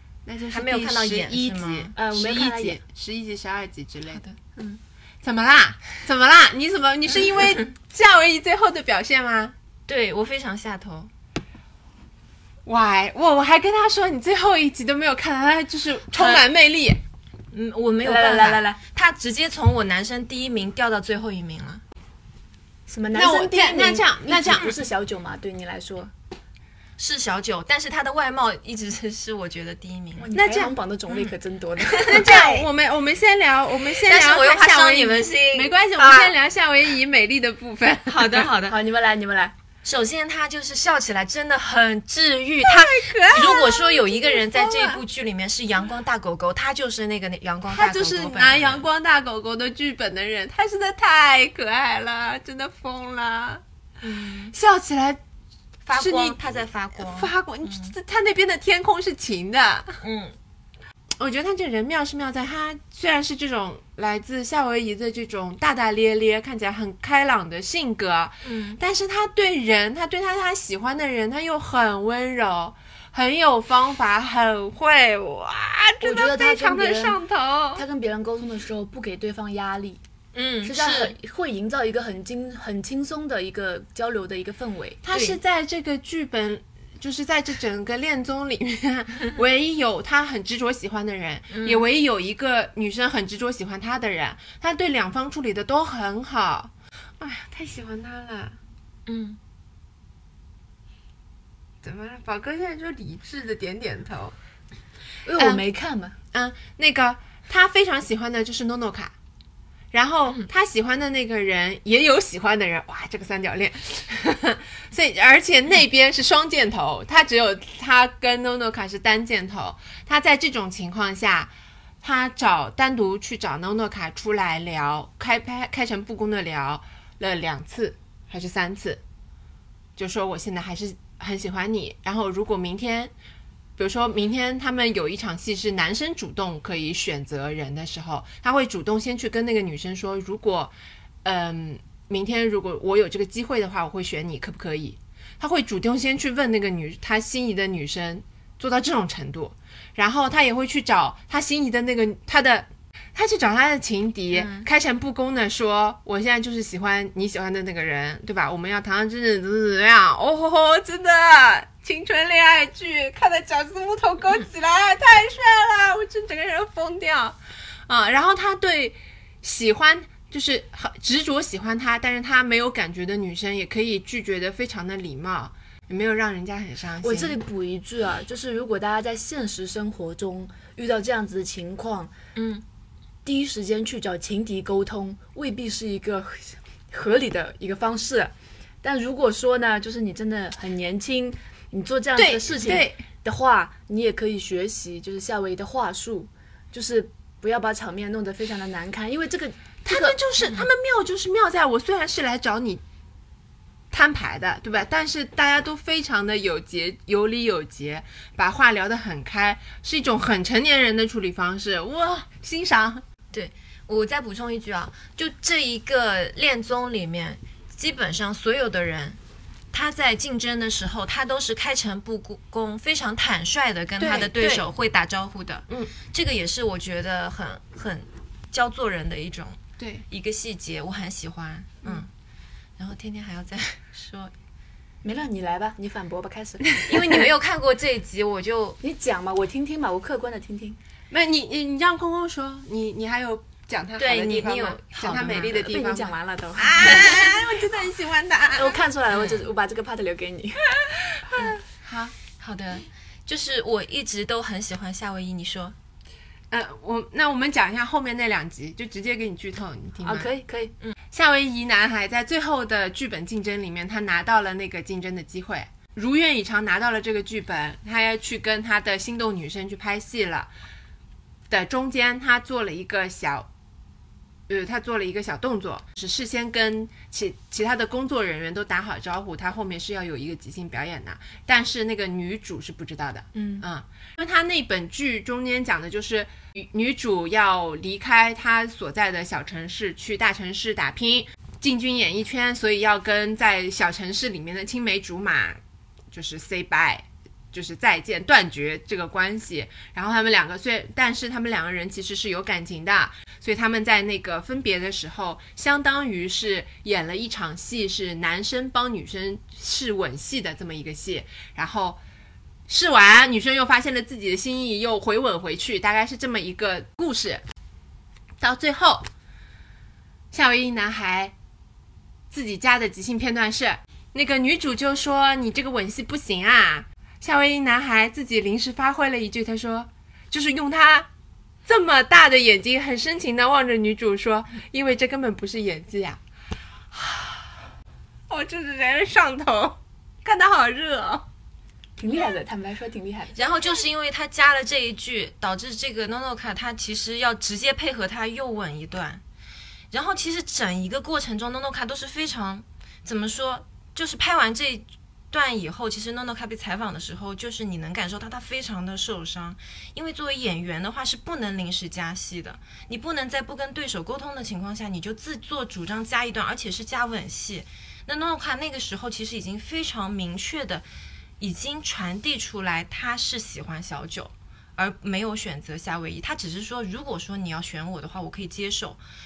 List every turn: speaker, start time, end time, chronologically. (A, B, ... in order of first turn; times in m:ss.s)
0:00.2-0:04.2 A
0:00.5-0:01.9 B
0:02.0-0:02.8 C
0:05.2-0:09.5 A
0:09.9-0:11.1 B
0:12.6-0:17.0 A
0:16.1-0:16.4 B
0:17.5-0:21.8 B
0:18.0-0:18.8 C
0:22.9-0:26.1 C
0:23.1-0:24.7 A
0:27.0-0:30.3 B
0:30.2-0:32.6 C
0:30.3-0:30.7 A
0:31.8-0:32.6 B
0:31.9-0:38.5 A
0:34.0-0:36.3 B
0:38.1-0:38.8 B
0:38.6-0:39.5 C
0:39.8-0:48.8 B
0:42.6-0:45.0 A
0:47.7-0:53.6 A
0:54.0-0:54.5 B
0:54.5-0:55.2 A
0:55.8-0:57.9 B
0:55.9-1:00.0 A
1:00.0-1:00.3 B
1:01.2-1:17.8 A
1:08.4-1:08.8 B
1:16.0-1:17.2 C
1:17.7-1:20.0 C
1:20.3-1:21.1 B
1:20.6-1:25.0 C
1:25.0-1:38.6 A
1:25.1-1:25.4 B
1:31.5-1:31.8 B
1:39.1-1:39.4 B
1:41.8-1:44.3 A
1:45.2-1:46.2 C
1:45.4-1:45.6 A
1:46.3-1:49.1 A
1:49.9-2:01.5 A
2:02.0-2:09.0 A
2:10.0-2:13.1 A
2:13.8-2:20.7 A
2:21.2-2:47.4 A
2:34.3-2:34.6 B
2:47.9-2:57.4 A
2:57.0-3:02.1 C
3:02.4-3:02.6 B
3:03.2-3:20.2 C
3:12.2-3:13.0 A
3:19.8-3:22.8 A
3:23.9-3:33.0 A
3:33.3-3:39.2 B
3:39.7-3:49.6 B
3:44.0-3:44.6 A
3:45.7-3:45.9 A
3:49.8-3:50.0 A
3:50.1-3:52.1 B
3:52.8-3:54.3 B
3:55.0-3:56.7 C
3:56.8-3:58.8 B
3:58.8-4:00.8 C
4:01.1-4:08.8 A
4:04.0-4:05.7 B
4:05.4-4:07.5 C
4:08.5-4:11.0 C
4:09.1-4:09.4 B
4:11.3-4:11.6 B
4:11.7-4:12.1 A
4:12.4-4:15.7 B
4:16.5-4:20.3 A
4:20.0-4:20.7 C
4:21.1-4:30.5 A
4:31.5-4:33.5 A
4:34.5-4:55.6 A
4:56.1-5:12.0 A
5:12.7-5:17.4 A
5:18.4-5:19.0 A
5:20.3-5:21.3 A
5:22.3-5:31.1 A
5:31.6-5:36.2 A
5:36.9-5:37.3 A
5:38.3-5:41.2 A
5:42.0-5:43.4 C
5:43.3-5:49.2 B
5:49.9-6:10.8 B
6:11.4-6:19.0 B